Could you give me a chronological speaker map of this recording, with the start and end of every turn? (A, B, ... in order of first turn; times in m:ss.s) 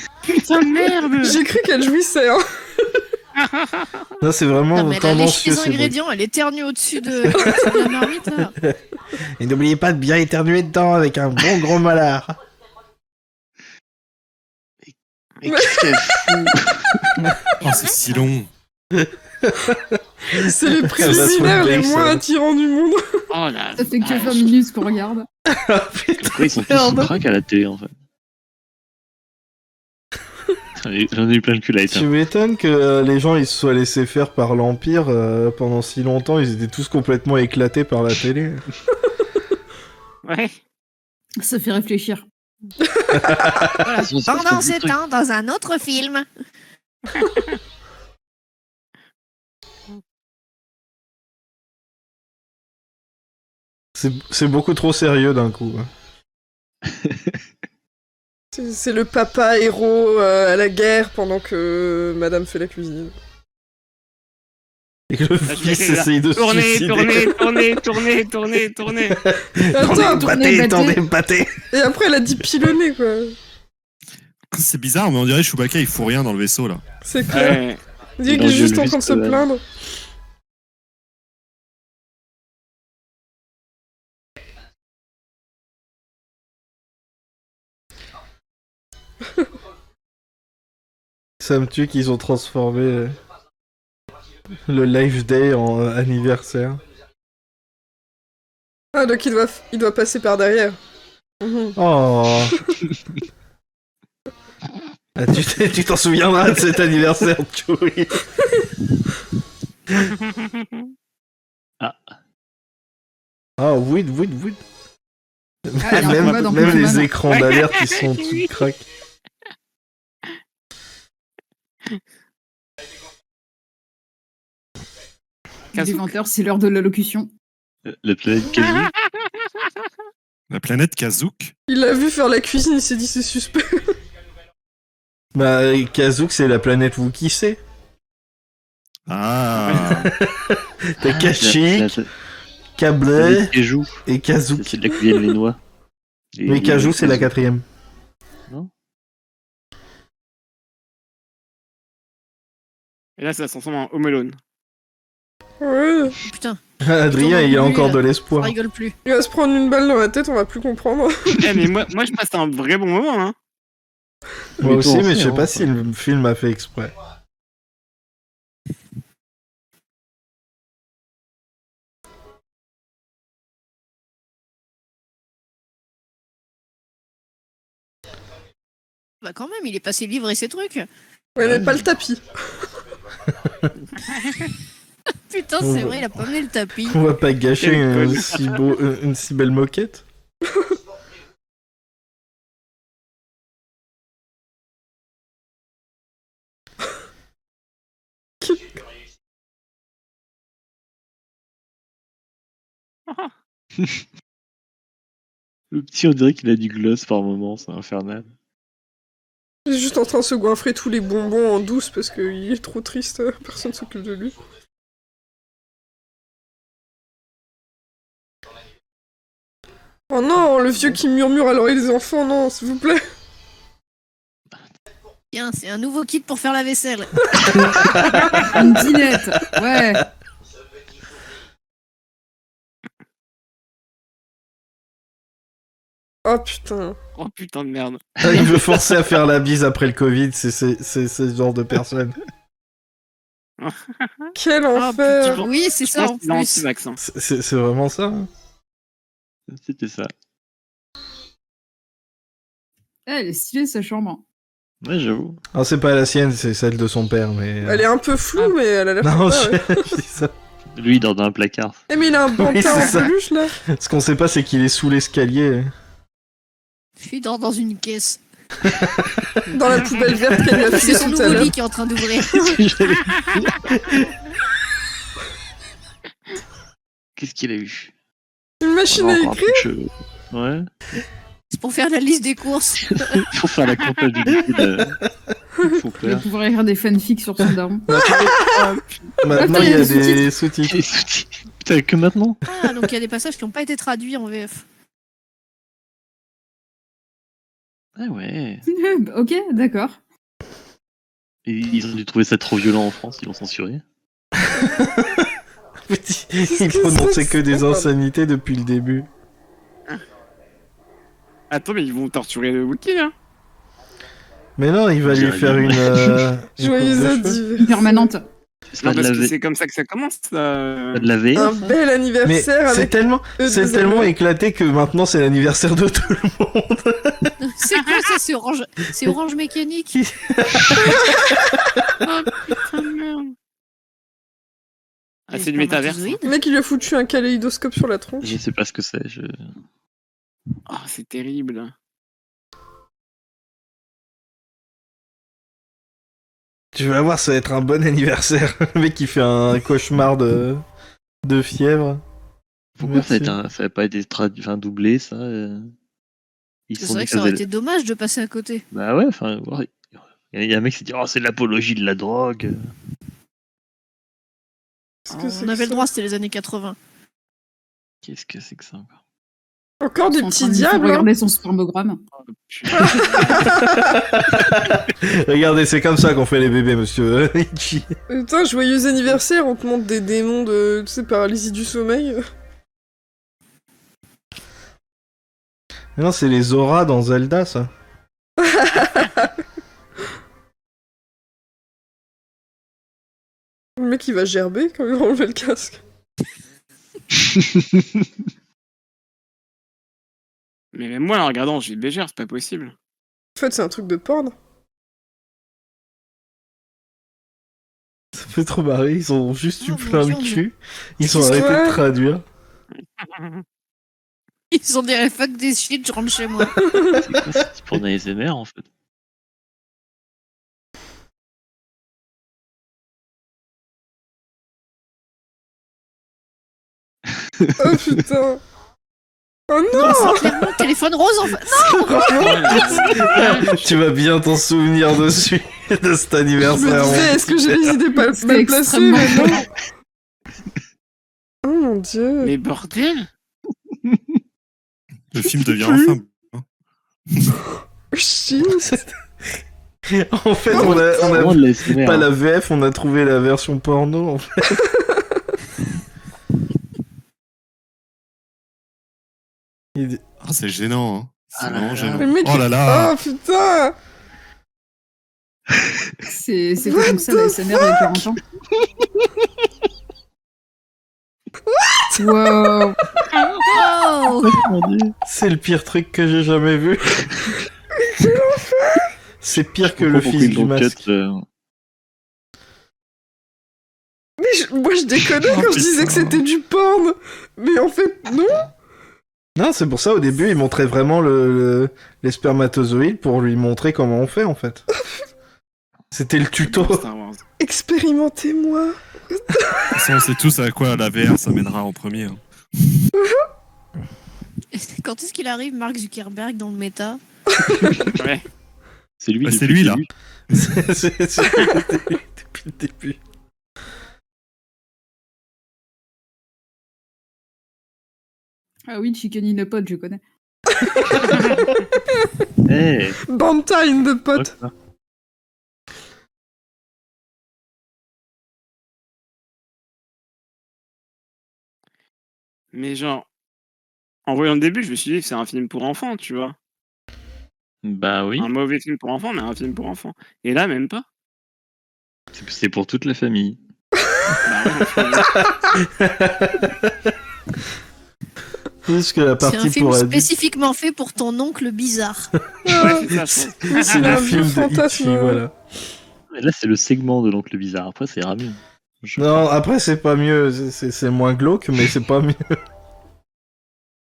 0:00.3-0:01.4 A
0:01.2-0:02.4 B
0:03.4-0:03.9 A
0:04.2-0:06.0 C
0:04.7-0:08.6 D
0:07.4-0:07.7 B
0:09.4-0:12.4 C
0:15.4-0:17.1 E
0:15.5-0:16.2 B
0:17.6-0:18.5 F
0:18.9-0:20.0 C
0:20.3-0:23.2 B
0:20.5-0:22.2 C
0:23.3-0:24.5 A
0:23.8-0:25.3 G
0:25.5-0:27.2 C
0:26.2-0:27.9 E
0:30.8-0:32.1 E
0:31.9-0:38.6 C
0:40.2-0:40.6 A
0:41.4-0:42.3 G
0:42.9-0:43.6 B
0:43.1-0:43.8 C
0:43.9-0:46.3 D
0:44.0-0:45.0 E
0:54.0-0:55.9 C
0:57.0-0:57.3 E
0:58.5-1:03.1 B
1:05.1-1:07.7 C
1:05.5-1:09.2 A
1:09.1-1:11.6 C
1:09.7-1:10.4 B
1:09.8-1:11.0 G
1:11.7-1:13.4 B
1:14.5-1:16.8 F
1:17.0-1:17.6 B
1:17.3-1:17.8 A
1:18.2-1:19.6 B
1:18.3-1:19.5 E
1:31.4-1:33.2 C
1:34.7-1:36.8 C
1:39.0-1:40.8 B
1:41.4-1:41.8 B
1:41.8-1:42.6 C
1:45.2-1:48.3 C
1:50.2-1:50.7 A
1:51.8-1:52.1 E
1:53.6-1:54.6 C
1:55.7-1:58.9 C
1:55.8-1:57.1 G
1:57.3-1:58.5 A
2:05.7-2:07.3 G
2:05.8-2:06.2 A
2:07.9-2:08.9 E
2:10.5-2:11.5 F
2:11.7-2:13.9 B
2:15.4-2:17.6 C
2:19.1-2:20.1 F
2:19.6-2:19.9 A
2:19.8-2:21.9 C
2:21.0-2:22.1 E
2:22.8-2:23.6 C
2:23.2-2:24.0 E
2:24.1-2:24.8 C
2:24.6-2:25.6 E
2:26.4-2:27.3 E
2:26.5-2:27.6 C
2:33.2-2:34.4 A
2:35.6-2:36.2 B
2:36.3-2:36.6 D
2:36.8-2:38.6 C
2:37.1-2:39.0 D
2:39.0-2:41.4 B
2:41.4-2:43.4 A
2:44.6-2:45.7 E
2:44.6-2:46.9 C
2:59.2-3:00.9 D
3:01.4-3:02.3 B
3:04.1-3:04.4 A
3:05.3-3:07.0 D
3:05.6-3:06.2 C
3:06.8-3:10.0 C
3:07.6-3:08.6 A
3:18.4-3:18.7 B
3:25.7-3:28.3 E
3:29.7-3:34.4 B
3:40.1-3:43.0 B
3:45.3-3:47.9 D
3:47.6-3:48.0 C
3:48.4-3:50.1 G
3:56.2-3:57.0 B
3:57.2-3:58.0 A
3:58.2-3:58.7 E
3:58.2-4:02.2 C
4:03.6-4:04.3 A
4:04.4-4:05.4 B
4:04.7-4:06.6 D
4:05.2-4:07.0 A
4:07.0-4:08.3 C
4:09.5-4:10.1 E
4:13.1-4:14.2 G
4:14.8-4:15.4 E
4:15.5-4:17.9 C
4:17.6-4:20.0 B
4:19.0-4:20.3 C
4:20.8-4:21.8 E
4:21.9-4:23.5 B
4:22.4-4:25.7 C
4:27.0-4:28.2 D
4:28.6-4:29.4 C
4:29.5-4:31.5 B
4:30.6-4:32.6 D
4:32.2-4:33.8 E
4:33.8-4:34.1 C
4:37.2-4:37.9 E
4:38.6-4:39.7 B
4:38.9-4:40.7 E
4:41.5-4:43.2 D
4:42.8-4:45.0 E
4:45.6-4:46.3 E
4:46.0-4:47.9 G
4:47.9-4:48.4 C
4:48.1-4:48.6 B
4:49.2-4:50.8 C
4:49.3-4:50.2 G
4:49.4-4:49.8 E
4:50.7-4:52.4 E
4:52.4-4:54.6 D
4:58.0-4:58.6 E
4:58.7-5:00.0 G
5:01.5-5:03.8 E
5:04.4-5:05.3 C
5:05.9-5:09.1 C
5:06.5-5:07.9 B
5:11.5-5:13.1 A
5:14.6-5:17.4 C
5:15.1-5:16.3 E
5:16.6-5:18.1 B
5:17.6-5:18.2 G
5:18.7-5:19.3 E
5:18.8-5:21.1 A
5:20.9-5:21.6 E
5:21.3-5:24.1 B
5:22.2-5:27.3 C
5:27.4-5:30.0 D
5:29.9-5:31.4 C
5:32.0-5:33.4 A
5:35.3-5:36.2 A
5:35.3-5:36.3 D
5:36.2-5:38.4 B
5:38.2-5:39.5 E
5:40.7-5:41.7 A
5:46.7-5:50.6 C
5:51.2-5:52.0 C
5:52.8-5:55.7 E
5:52.8-5:53.4 C
5:56.7-5:57.4 E
5:56.8-5:58.6 D
5:58.7-6:02.7 E
6:05.1-6:05.9 B
6:05.1-6:06.8 D
6:08.0-6:09.0 E
6:09.8-6:11.1 B
6:10.1-6:12.0 G
6:12.3-6:13.4 A
6:12.7-6:13.6 B
6:13.6-6:17.9 C
6:18.1-6:22.2 B
6:26.0-6:27.7 C
6:28.4-6:29.3 B
6:33.8-6:35.8 B
6:40.7-6:42.7 A
6:43.4-6:44.4 B
6:48.2-6:52.2 C
6:49.6-6:50.4 D
6:51.0-6:51.5 D
6:51.1-6:51.8 B
6:53.0-6:53.4 A
6:54.5-6:56.6 D
6:56.6-6:57.1 B
6:57.0-6:58.7 E
7:07.6-7:08.4 B
7:09.5-7:10.4 B
7:09.7-7:12.9 D
7:11.5-7:17.8 C
7:12.2-7:13.5 A
7:16.4-7:19.4 B
7:18.1-7:19.4 G
7:21.4-7:22.3 B
7:22.2-7:23.1 A
7:23.8-7:24.1 E
7:25.1-7:26.4 F
7:25.4-7:26.0 B
7:27.9-7:28.7 B
7:28.4-7:28.9 C
7:29.9-7:34.6 C
7:30.5-7:31.2 B
7:30.5-7:32.1 E
7:34.6-7:35.0 B
7:39.7-7:40.0 C
7:40.2-7:42.9 F
7:41.4-7:42.1 E
7:42.0-7:43.8 B
7:46.1-7:48.2 G
7:46.6-7:48.0 B
7:51.5-7:52.0 B
7:52.0-7:52.8 G
7:53.5-7:54.4 D
7:54.2-7:55.0 E
7:55.0-7:57.0 C
7:57.7-7:58.9 B
7:59.2-8:00.8 C
7:59.7-8:01.2 E
8:04.2-8:08.5 B
8:05.3-8:06.2 E
8:05.4-8:05.9 F
8:09.4-8:14.6 C
8:15.9-8:16.8 C
8:16.4-8:17.2 A
8:17.4-8:19.8 B
8:19.7-8:22.2 F
8:23.0-8:23.2 B
8:24.5-8:27.0 D
8:27.4-8:27.9 B
8:28.0-8:28.2 A
8:29.0-8:29.9 E
8:29.2-8:29.8 F
8:30.3-8:33.0 C
8:38.7-8:40.0 G
8:40.5-8:41.4 B
8:42.5-8:43.0 E
8:43.0-8:44.4 B
8:44.1-8:44.5 E
8:52.5-8:53.1 A
8:54.1-8:56.4 A
8:57.6-8:58.3 E
8:58.2-9:00.8 A
9:02.1-9:03.4 E
9:04.2-9:05.1 A
9:05.6-9:06.8 C
9:08.6-9:10.1 C
9:09.2-9:12.1 D
9:12.4-9:12.9 B
9:12.6-9:14.2 A
9:13.5-9:15.2 B
9:13.5-9:15.3 C
9:16.1-9:19.3 E
9:19.0-9:22.2 C